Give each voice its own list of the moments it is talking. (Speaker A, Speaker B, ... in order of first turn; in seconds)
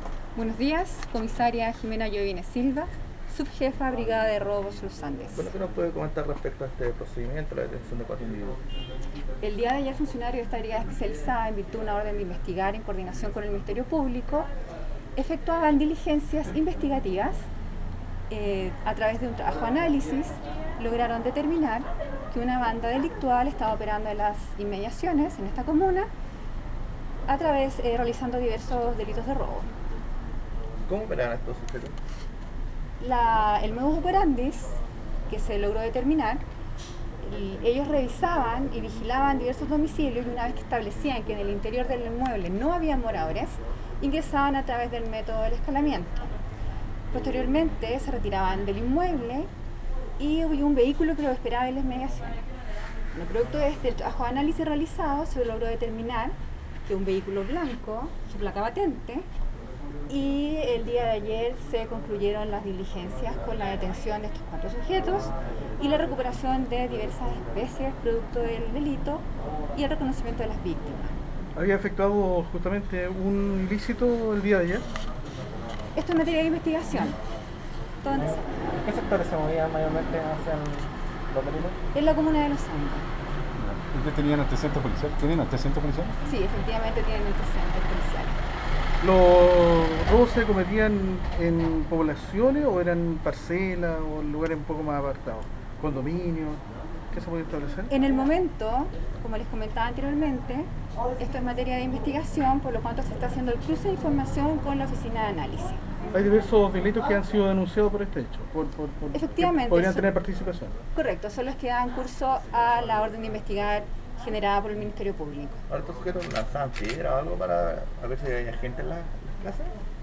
Speaker A: 0.3-5.5, 9.4-14.5, 15.2-17.5, 18.3-26.1, 27.3-29.7, 33.0-34.8, 35.3-36.4, 37.2-46.3, 47.1-49.5, 50.2-52.4, 53.1-59.3, 60.1-71.1, 76.0-77.2, 78.0-78.8, 81.9-83.1, 86.2-88.4, 97.9-105.8, 109.1-110.1, 110.9-115.6
Speaker B: 5.3-8.6, 30.9-32.0, 115.7-119.8
Speaker C: 71.5-74.9, 89.0-97.9, 106.1-110.7
Speaker D: 78.2-81.8
Speaker E: 83.6-86.1